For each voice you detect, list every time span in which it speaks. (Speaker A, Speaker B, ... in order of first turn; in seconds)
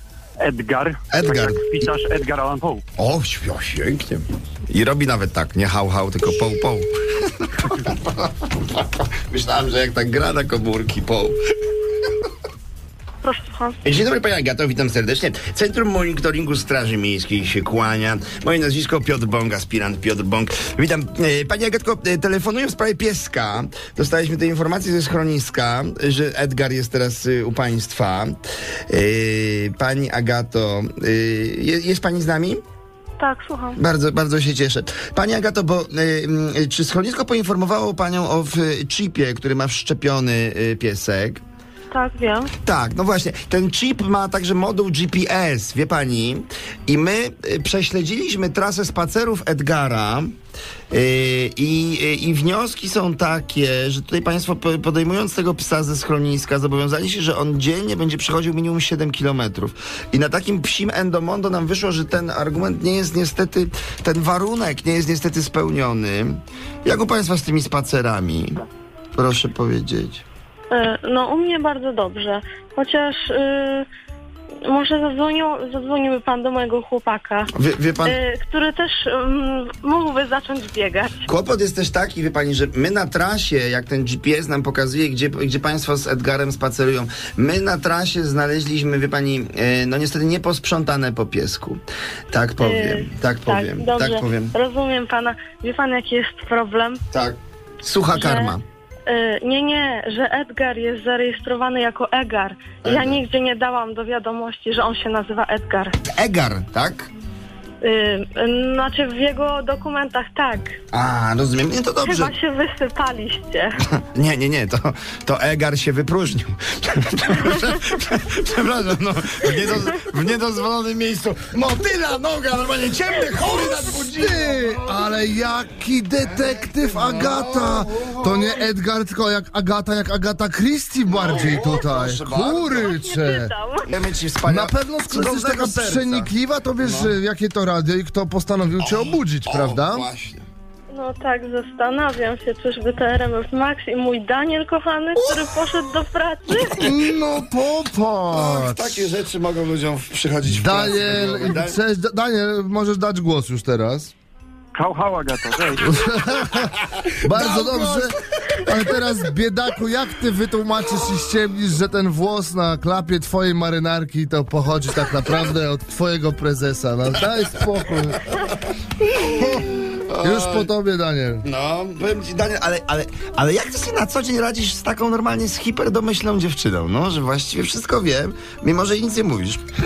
Speaker A: 0.4-2.8, 154.7-155.8
Speaker B: 1.1-1.6, 3.0-11.4, 13.8-28.3, 28.9-32.6, 33.8-41.4, 42.6-50.3, 50.9-68.6, 69.2-70.2, 77.5-78.2, 81.3-94.5, 97.1-98.6, 102.8-103.2, 106.1-107.1, 110.9-112.3, 114.1-125.1, 126.3-128.7, 131.1-132.9, 133.8-137.2, 138.8-140.4, 146.7-147.0, 148.3-151.8, 156.3-159.0, 167.2-168.6, 169.1-170.7, 171.4-179.6
Speaker C: 13.2-13.8, 33.2-33.8, 41.9-42.5, 70.7-73.8, 74.6-77.5, 78.0-81.2, 92.6-97.0, 98.1-98.5, 99.1-105.9, 107.8-110.7, 112.0-113.8, 132.7-133.9, 140.9-146.8
Speaker D: 124.1-133.5, 134.4-140.1, 146.8-149.1, 150.5-154.1, 155.8-168.2, 169.3-169.7, 170.2-171.4